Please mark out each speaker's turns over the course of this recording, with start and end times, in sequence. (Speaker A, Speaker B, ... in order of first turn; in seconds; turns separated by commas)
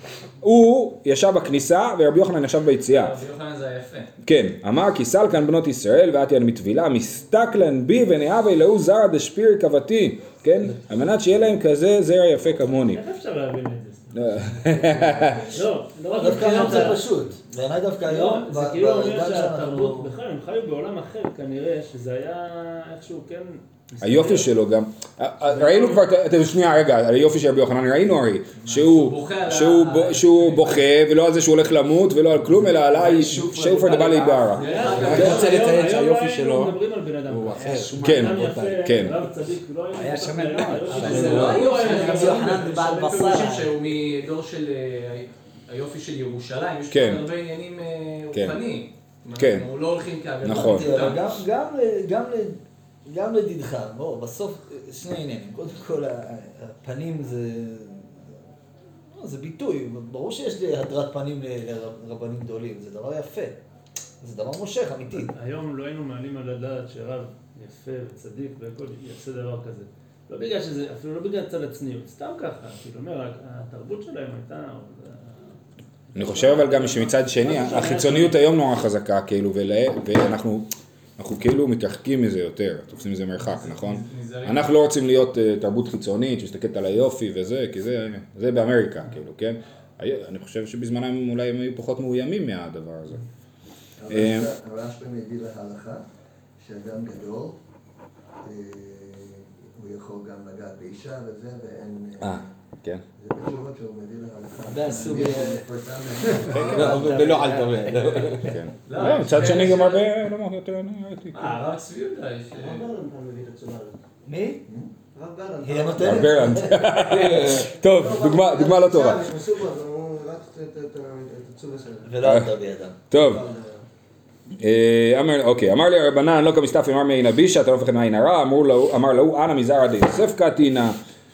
Speaker A: 0.4-3.2, Speaker B: 2.9-4.1, Speaker A: 4.2-13.0, Speaker C: 12.7-14.9, Speaker A: 14.1-15.5, Speaker C: 15.4-17.1, Speaker D: 16.1-20.0, Speaker E: 16.5-16.9, Speaker C: 18.0-24.5, Speaker E: 18.5-19.6, Speaker A: 24.0-35.3, Speaker C: 25.5-26.0, Speaker B: 28.6-30.9, Speaker D: 32.3-36.8, Speaker B: 34.6-36.0, Speaker C: 34.6-43.4, Speaker D: 37.3-39.0, Speaker A: 38.0-39.2, Speaker D: 39.9-43.7, Speaker B: 40.9-51.4, Speaker A: 46.9-47.2, Speaker A: 49.4-49.7, Speaker A: 50.4-51.1, Speaker D: 50.4-58.4, Speaker D: 59.1-63.6, Speaker D: 64.2-65.3, Speaker C: 65.2-75.5, Speaker C: 76.1-78.4, Speaker A: 76.1-93.2, Speaker B: 83.4-84.7, Speaker E: 94.0-96.0, Speaker A: 94.1-94.5, Speaker E: 96.6-97.6, Speaker E: 98.4-102.4, Speaker A: 102.2-103.0, Speaker E: 103.2-108.4, Speaker D: 104.6-105.6, Speaker D: 106.2-108.6, Speaker A: 106.5-107.0, Speaker A: 108.3-111.5, Speaker B: 108.8-110.1, Speaker B: 111.3-112.8, Speaker E: 112.5-114.0, Speaker D: 114.2-114.6, Speaker E: 114.7-122.2, Speaker D: 115.6-117.7, Speaker A: 116.0-119.3, Speaker D: 122.0-123.0, Speaker A: 122.2-122.5, Speaker A: 123.1-123.4, Speaker E: 123.1-123.8, Speaker A: 124.6-131.0